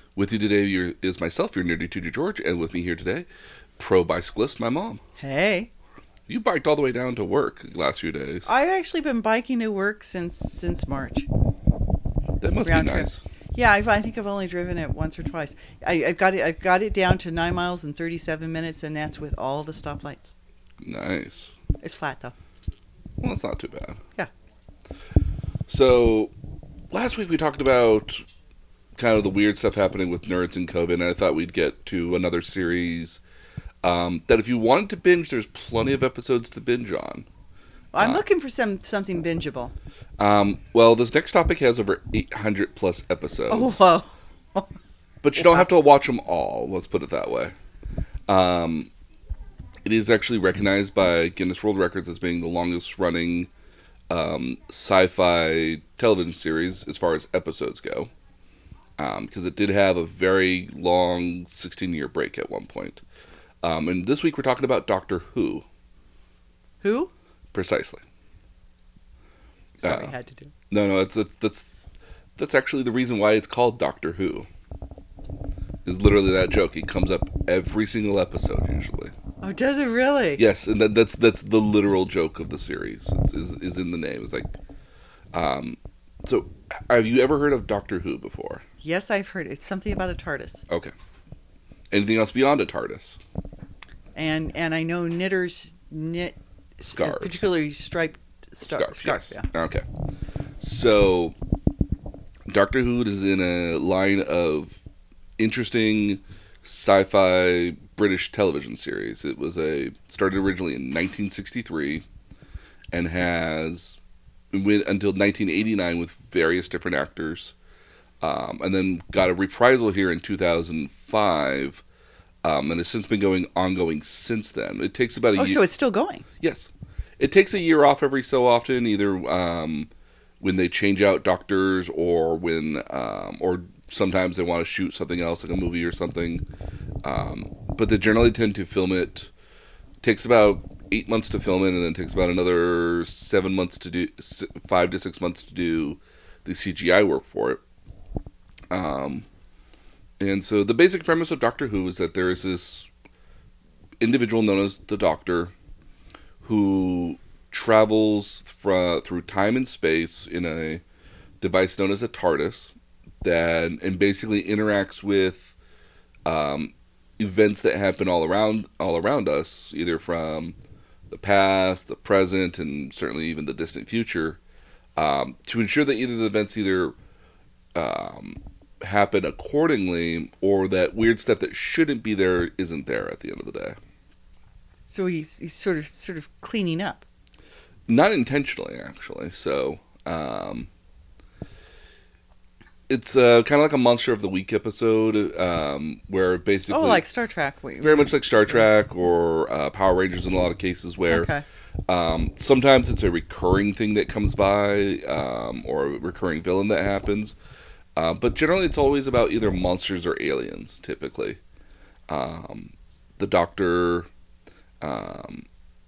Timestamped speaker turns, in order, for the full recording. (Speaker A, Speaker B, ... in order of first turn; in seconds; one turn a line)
Speaker A: 0.1-3.3
Speaker A: 3.8-5.0
Speaker B: 5.2-5.7
Speaker A: 6.3-8.5
Speaker B: 8.4-11.3
Speaker A: 12.4-13.2
Speaker B: 12.6-20.3
Speaker A: 20.8-21.5
Speaker B: 21.8-22.3
Speaker A: 23.2-24.0
Speaker A: 25.7-26.3
Speaker A: 26.9-28.2
Speaker A: 28.9-33.2
Speaker A: 33.8-37.3
Speaker B: 37.9-39.7
Speaker A: 38.0-38.2
Speaker A: 40.2-43.8
Speaker B: 43.5-44.7
Speaker A: 45.2-47.5
Speaker B: 45.4-45.6
Speaker A: 48.3-48.9
Speaker A: 49.8-53.5
Speaker A: 54.1-58.1
Speaker A: 59.0-63.0
Speaker A: 63.6-65.6
Speaker B: 66.8-67.1
Speaker A: 67.5-68.0
Speaker B: 69.8-70.5
Speaker A: 69.8-70.1
Speaker A: 70.7-71.7
Speaker A: 72.4-74.5
Speaker A: 75.8-79.1
Speaker B: 79.4-80.4
Speaker A: 80.4-84.6
Speaker A: 85.3-88.6
Speaker B: 88.8-90.6
Speaker A: 90.7-90.9
Speaker A: 91.9-93.2
Speaker B: 94.2-99.5
Speaker A: 96.9-97.4
Speaker A: 98.6-99.8
Speaker A: 100.6-101.3
Speaker A: 102.5-104.8
Speaker A: 105.4-112.0
Speaker A: 112.9-114.0
Speaker A: 114.5-117.5
Speaker A: 118.2-121.8
Speaker A: 122.4-125.6
Speaker B: 125.3-126.2
Speaker A: 126.4-129.9
Speaker A: 130.4-136.4
Speaker A: 137.0-139.3
Speaker A: 140.0-147.6
Speaker A: 148.7-149.2
Speaker A: 150.2-152.9
Speaker A: 154.0-155.5
Speaker A: 156.4-160.8
Speaker A: 161.4-165.5
Speaker A: 166.2-170.6
Speaker A: 171.1-174.4
Speaker A: 174.9-176.9
Speaker A: 177.7-183.8
Speaker B: 184.9-187.0
Speaker A: 187.9-190.7
Speaker A: 192.9-197.0
Speaker B: 196.7-198.6
Speaker A: 197.8-201.3
Speaker B: 201.1-201.4
Speaker A: 201.9-207.3
Speaker A: 207.9-211.4
Speaker A: 212.1-214.1
Speaker A: 214.8-215.4